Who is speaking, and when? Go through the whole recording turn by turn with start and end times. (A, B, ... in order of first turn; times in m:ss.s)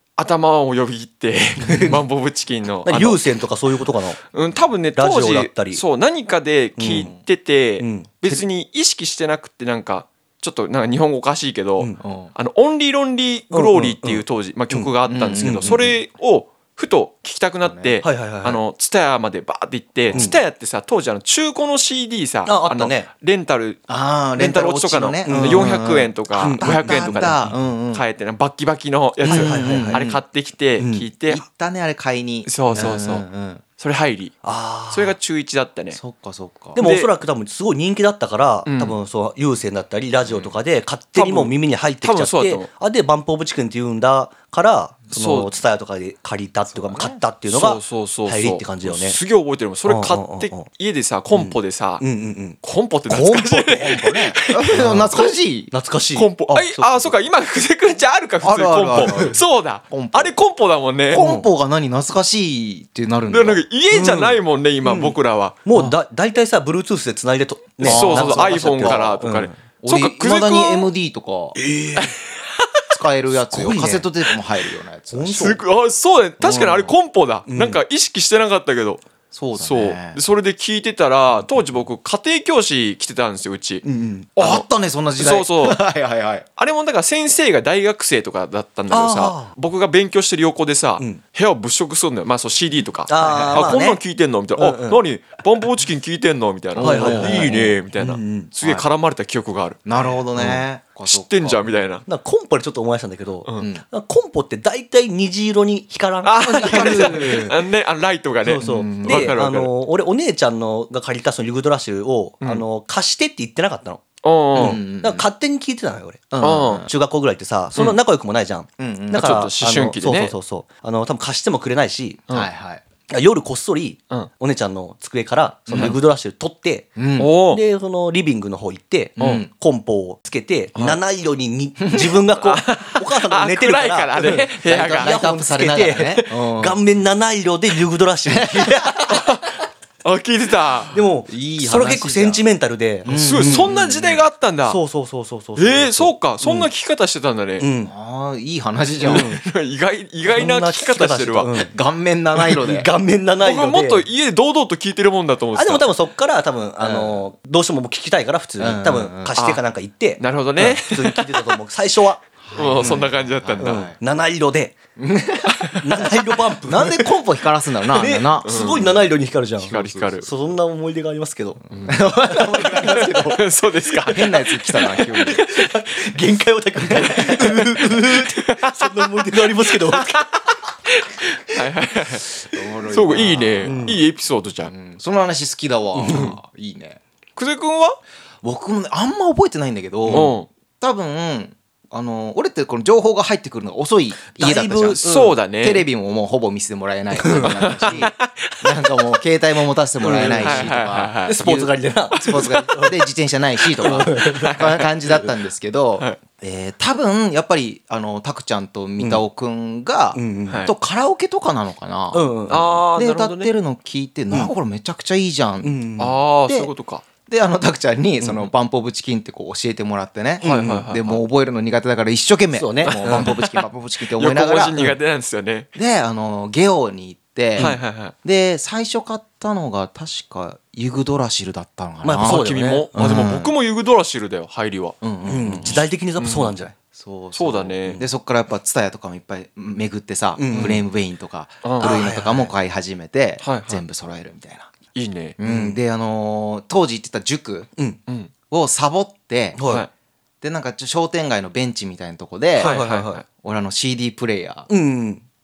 0:00.2-0:03.3 A
0:01.6-0:02.0 B
0:02.8-0:04.2 B
0:04.3-0:23.8 A
0:05.0-0:05.8 B
0:06.8-0:07.1 B
0:06.9-0:07.2 C
0:07.8-0:08.4 B
0:12.0-0:12.3 C
0:13.5-0:15.9 B
0:15.1-0:15.9 C
0:17.6-0:18.0 C
0:18.0-0:18.6 B
0:20.1-0:20.3 C
0:20.1-0:20.4 B
0:22.5-0:23.1 B
0:23.9-0:28.0 C
0:24.4-0:27.4 A
0:25.2-0:25.8 B
0:26.4-0:27.6 B
0:27.9-0:31.4 A
0:29.2-0:30.0 B
0:29.2-0:30.2 C
0:30.8-0:31.1 B
0:31.3-0:33.6 C
0:32.5-0:33.3 A
0:33.8-0:34.4 A
0:34.4-0:35.2 B
0:34.9-0:36.0 A
0:35.9-0:36.8 C
0:36.8-0:49.2 B
0:36.8-0:37.1 A
0:38.7-0:39.0 A
0:41.2-0:42.7 A
0:45.1-0:45.5 A
0:46.7-0:47.2 C
0:47.5-0:52.0 A
0:49.9-0:50.7 B
0:51.3-0:53.9 B
0:52.6-0:54.8 A
0:53.7-0:55.7 C
0:54.7-0:55.2 B
0:55.7-0:57.1 B
0:56.2-1:01.2 A
0:58.4-1:00.3 C
0:59.0-0:59.3 B
1:01.1-1:03.6 C
1:01.1-1:01.5 B
1:03.3-1:05.6 A
1:03.9-1:09.6 B
1:07.8-1:09.2 C
1:07.8-1:10.9 A
1:09.8-1:11.6 C
1:11.6-1:12.2 B
1:12.0-1:12.8 A
1:12.9-1:15.6 C
1:13.3-1:14.1 B
1:15.1-1:15.6 B
1:15.4-1:19.0 A
1:16.4-1:16.9 C
1:17.5-1:17.8 B
1:19.3-1:20.2 C
1:19.6-1:23.8 A
1:23.8-1:24.3 B
1:24.4-1:24.7 A
1:24.4-1:26.5 C
1:25.2-1:25.8 A
1:26.6-1:39.8 A
1:28.9-1:29.5 B
1:33.1-1:34.0 B
1:33.3-1:33.6 C
1:34.6-1:35.0 B
1:36.8-1:37.6 C
1:36.8-1:38.5 B
1:38.6-1:38.9 C
1:39.9-1:41.8 C
1:40.4-1:40.6 B
1:41.1-1:42.0 A
1:42.1-1:47.6 B
1:43.6-1:43.8 C
1:46.2-1:49.7 A
1:46.5-1:47.6 C
1:48.4-2:02.2 B
1:48.6-1:49.4 C
1:54.2-1:54.8 A
1:54.6-1:55.3 C
1:56.3-1:56.9 C
1:56.4-1:56.9 A
1:58.8-1:59.4 C
1:59.2-2:00.3 A
2:02.3-2:02.8 C
2:03.1-2:19.2 B
2:05.7-2:06.0 C
2:07.0-2:07.3 C
2:07.2-2:07.6 A
2:09.2-2:09.5 C
2:11.8-2:12.2 C
2:12.4-2:15.2 A
2:14.6-2:16.8 C
2:18.3-2:19.1 C
2:19.1-2:21.0 A
2:20.9-2:23.7 B
2:21.3-2:22.4 C
2:23.0-2:24.2 C
2:23.1-2:24.8 A
2:24.7-2:26.7 B
2:25.6-2:27.7 A
2:27.6-2:27.9 B
2:27.8-2:29.3 C
2:29.0-2:31.5 A
2:29.0-2:29.4 B
2:30.3-2:31.7 B
2:31.7-2:32.9 C
2:32.4-2:34.1 B
2:33.4-2:35.9 A
2:35.6-2:42.2 B
2:36.8-2:37.2 C
2:38.6-2:39.4 C
2:39.4-2:39.6 A
2:40.2-2:41.6 A
2:42.4-2:44.0 C
2:42.6-2:43.9 A
2:43.6-2:44.8 B
2:45.0-2:49.0 C
2:45.7-2:47.2 B
2:47.9-2:51.7 B
2:48.4-2:48.9 A
2:49.6-2:50.2 C
2:49.6-2:50.3 A
2:51.8-2:55.4 C
2:52.3-2:53.0 B
2:52.6-2:55.7 A
2:55.2-3:00.2 B
2:56.9-2:57.4 C
2:56.9-3:02.3 A
3:02.5-3:04.0 C
3:02.9-3:04.7 A
3:03.6-3:04.0 B
3:04.7-3:07.0 C
3:06.0-3:06.3 B
3:06.1-3:06.4 A
3:07.4-3:08.0 A
3:08.4-3:35.9 C
3:10.1-3:10.3 B
3:10.1-3:10.5 A
3:14.4-3:15.4 B
3:15.0-3:15.9 A
3:17.2-3:18.0 B
3:17.4-3:18.7 A
3:20.0-3:23.0 B
3:20.4-3:21.4 A
3:22.2-3:22.5 A
3:23.8-3:24.6 B
3:23.8-3:24.8 A
3:30.2-3:30.7 B
3:32.1-3:32.8 B
3:32.5-3:33.5 A
3:35.6-3:36.2 B
3:36.0-3:37.0 A
3:37.3-3:44.8 C
3:40.4-3:40.9 B
3:40.4-3:41.1 A
3:42.5-3:43.3 B
3:42.9-3:45.7 A
3:45.8-3:53.5 C
3:47.6-3:48.1 A
3:52.0-3:52.9 B
3:52.2-3:55.0 A
3:55.0-3:55.8 C
3:55.2-3:56.7 B
3:55.6-3:56.6 A
3:56.8-4:04.7 C
3:57.4-3:58.0 A
4:00.4-4:00.8 B
4:00.5-4:00.8 A
4:01.6-4:01.9 A
4:01.8-4:02.5 B
4:03.4-4:03.8 A
4:05.0-4:05.4 A
4:05.4-4:07.7 C
4:05.4-4:05.8 B
4:08.5-4:09.6 C
4:09.6-4:09.9 B
4:10.4-4:12.7 C
4:12.6-4:13.2 A
4:12.6-4:13.2 B
4:13.4-4:14.7 C
4:14.7-4:15.2 B